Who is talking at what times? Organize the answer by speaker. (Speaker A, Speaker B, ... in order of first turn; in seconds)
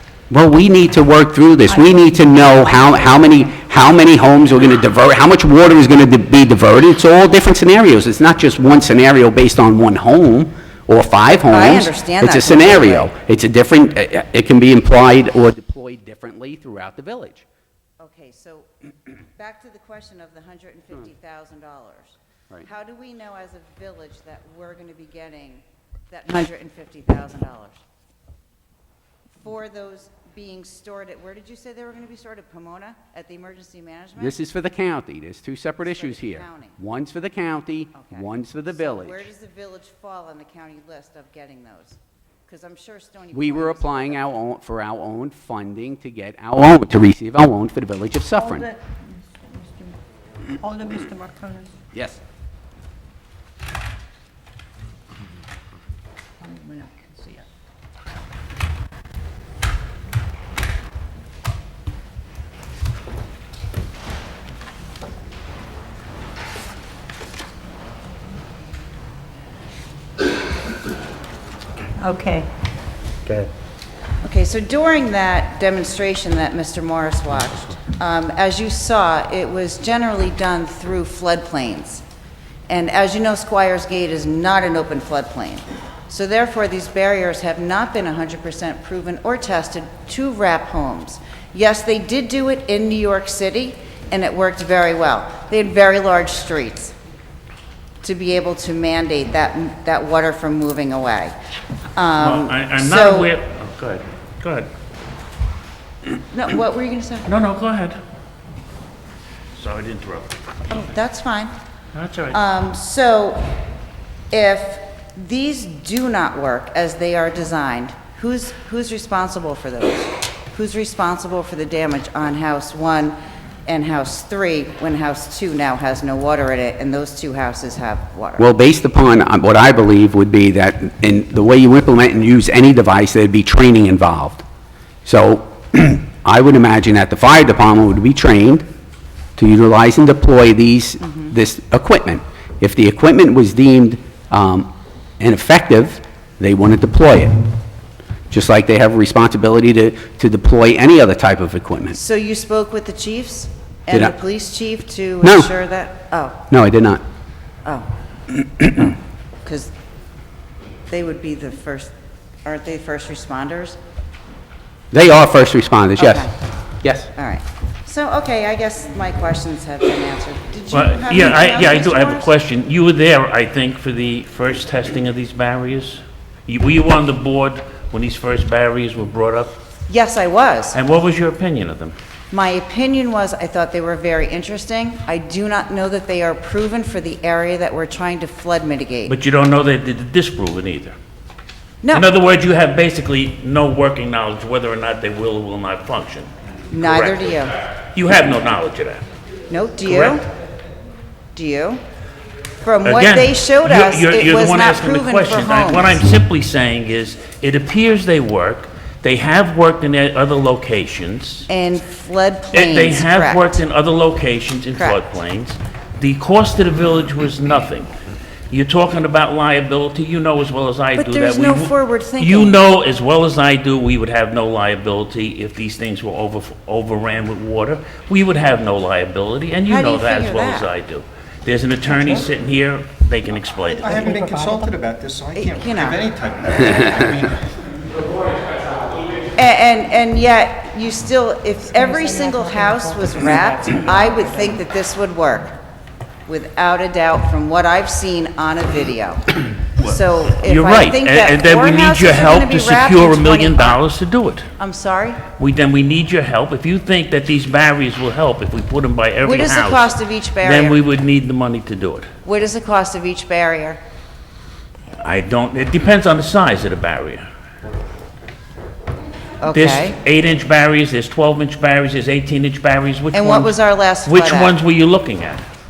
Speaker A: 0.3-17.4, 34.2-39.3, 43.3-48.7, 51.9-52.2, 128.4-134.4, 135.0-138.7, 139.4-147.3, 148.3-152.0, 155.2-155.5, 156.5-157.0, 164.9-166.3, 166.8-167.1
Speaker B: 11.3-13.1, 18.0-27.8, 29.4-34.4, 35.8-36.8, 37.9-44.2, 74.2-82.0, 82.7-96.9, 98.0-101.3, 101.9-103.3, 106.3-107.3, 110.7-111.5, 112.3-113.4, 114.3-128.5, 141.1-141.3, 151.9-156.4, 158.6-159.7, 160.9-161.9, 162.4-163.8, 166.0-166.3, 167.1-172.3, 179.9-180.8, 182.3-189.1, 191.8-192.1, 196.7-197.5, 199.5-200.2, 201.3-201.8, 202.6-206.0, 211.5-213.6, 220.9-222.6, 229.7-230.7, 235.3-236.0, 239.3-245.6, 246.3-249.2, 249.8-253.8, 254.6-255.2, 259.2-260.8, 262.2-263.8, 269.4-270.0, 273.1-274.5
Speaker C: 48.4-50.0, 50.5-51.7, 56.4-57.5, 72.0-72.5, 234.1-234.7, 241.8-242.8
Speaker D: 102.2-104.7, 107.2-108.0, 109.5-110.4, 111.9-112.4, 170.7-179.6, 180.7-181.9, 189.1-190.9, 191.9-199.1, 199.8-200.2, 202.8-211.5, 212.5-217.9, 218.5-234.1, 249.8-254.5, 255.3-262.1, 265.0-267.2, 269.5-273.5, 274.1-275.4
Speaker E: 233.8-237.4